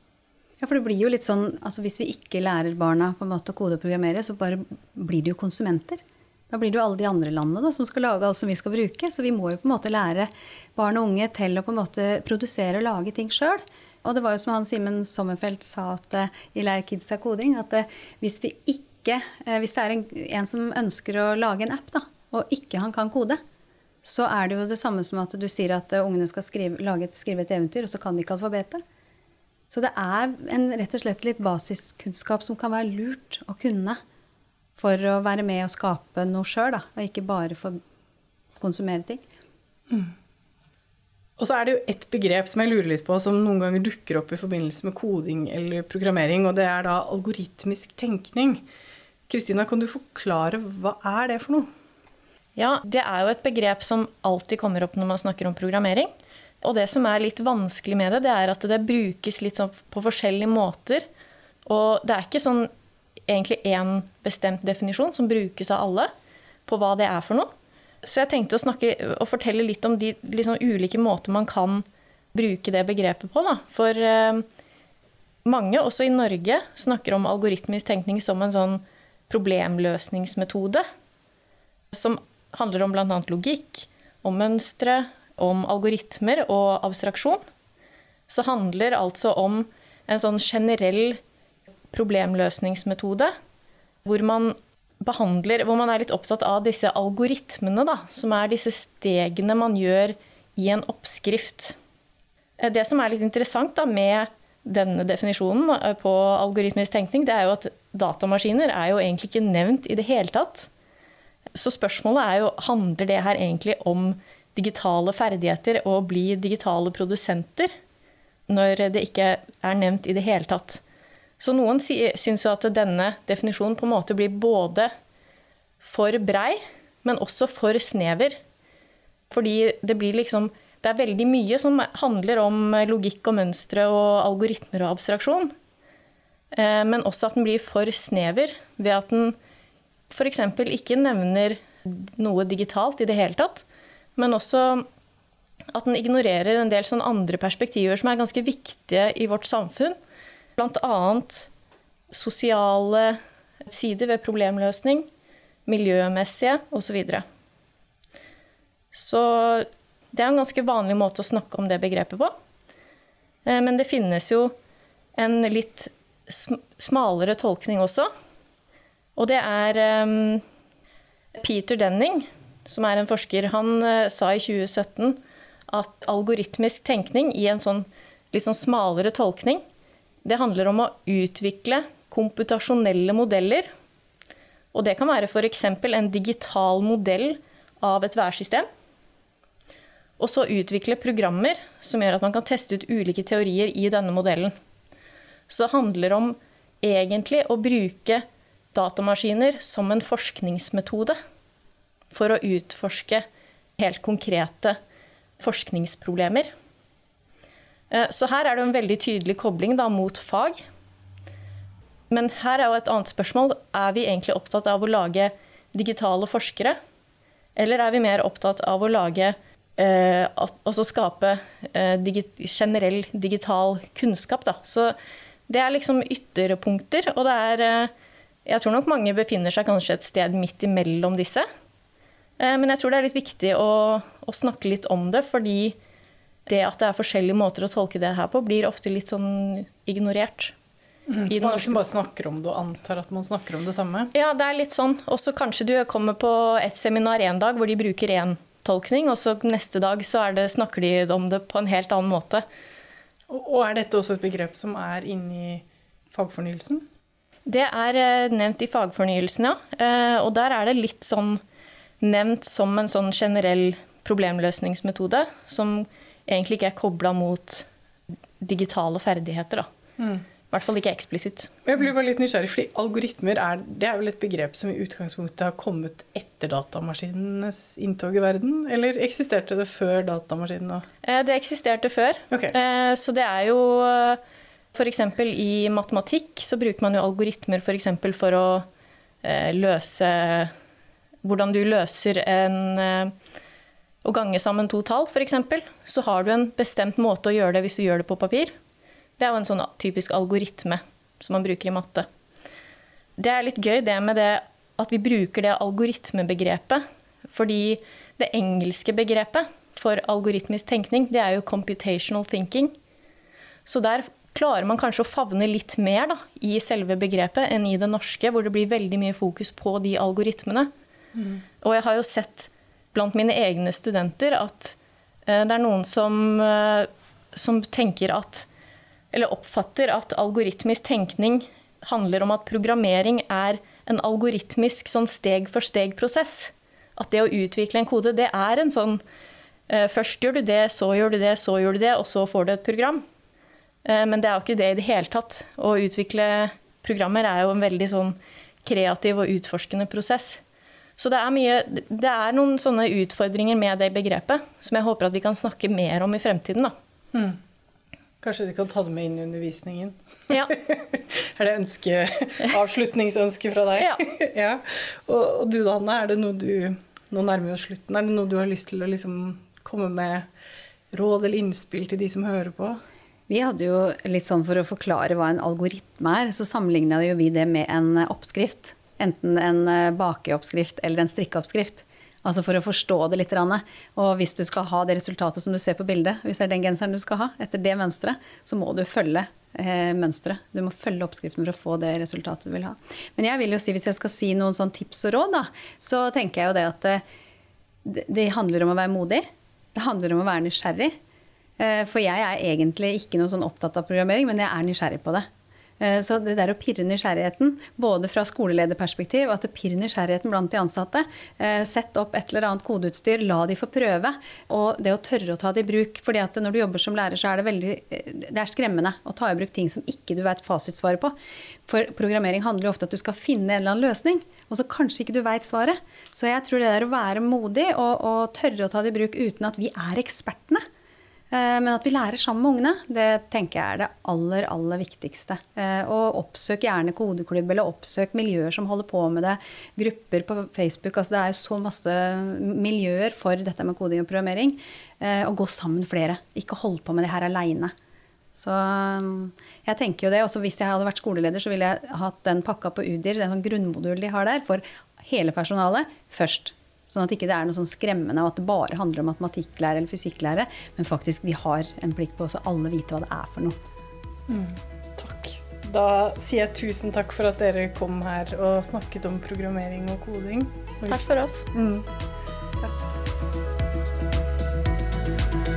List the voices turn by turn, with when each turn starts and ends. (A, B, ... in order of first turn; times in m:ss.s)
0:00.6-0:23.4 A
0:24.0-0:28.8 A
0:29.7-0:34.0 A
0:34.8-0:37.8 A
0:38.6-0:39.2 A
0:39.9-0:40.1 B
0:41.4-0:48.6 B
0:49.3-0:51.7 B
0:52.6-0:56.1 C
0:56.6-1:01.0 C
1:01.7-1:02.7 C
1:03.3-1:06.1 C
1:06.7-1:07.5 C
1:08.0-1:14.5 C
1:15.4-1:20.8 C
1:21.9-1:27.4 C
1:28.3-1:31.2 C
1:31.9-1:33.3 C
1:34.0-1:41.8 C
1:42.6-1:50.7 C
1:51.6-1:57.7 C
1:58.5-2:00.8 C
2:01.4-2:04.9 C
2:05.8-2:08.4 C
2:09.3-2:15.5 C
2:16.5-2:19.4 C
2:20.1-2:23.6 C
2:24.2-2:24.9 C
2:25.7-2:30.0 C
2:30.6-2:31.5 C
2:32.1-2:35.1 C
2:35.7-2:37.2 C
2:38.9-2:42.4 C
2:43.4-2:44.5 C
2:45.2-2:48.1 C
2:49.2-2:50.4 C
2:51.4-2:59.6 C
3:00.2-3:03.7 C
3:04.7-3:08.7 C
3:10.2-3:14.5 C
3:15.5-3:21.2 C
3:22.1-3:23.2 C
3:23.8-3:24.8 C
3:25.4-3:26.5 C
3:27.9-3:30.6 C
3:32.1-3:36.8 C
3:37.6-3:45.0 C
3:45.5-3:47.9 C
3:48.5-3:51.5 C
3:52.4-3:55.8 C
3:56.5-4:00.6 C
4:01.1-4:04.1 B
4:01.3-4:01.8 C
4:04.1-4:12.4 C
4:13.3-4:16.8 B
4:17.5-4:21.4 C
4:22.0-4:27.7 C
4:28.4-4:29.7 C
4:30.0-4:30.2 B
4:30.5-4:31.5 C
4:31.7-4:40.9 B
4:41.0-4:44.2 C
4:44.7-4:48.7 C
4:49.2-4:50.5 C
4:51.2-4:53.1 C
4:54.0-4:58.5 C
4:59.2-5:02.1 C
5:03.2-5:12.7 C
5:13.7-5:20.7 C
5:21.2-5:21.4 B
5:21.6-5:24.8 C
5:25.3-5:28.5 C
5:29.1-5:39.0 C
5:39.7-5:43.0 C
5:43.8-5:50.4 C
5:51.0-5:56.7 C
5:57.1-5:57.4 B
5:58.2-6:00.0 B
6:00.5-6:10.3 B
6:03.8-6:04.0 C
6:10.9-6:12.8 B
6:13.3-6:37.0 A
6:37.8-6:41.0 A
6:41.6-6:45.3 A
6:45.8-7:01.2 A
7:01.7-7:10.6 A
7:11.3-7:27.7 A
7:28.4-7:43.6 A
7:44.3-7:51.0 B
7:50.9-7:51.5 C
7:51.5-7:51.9 B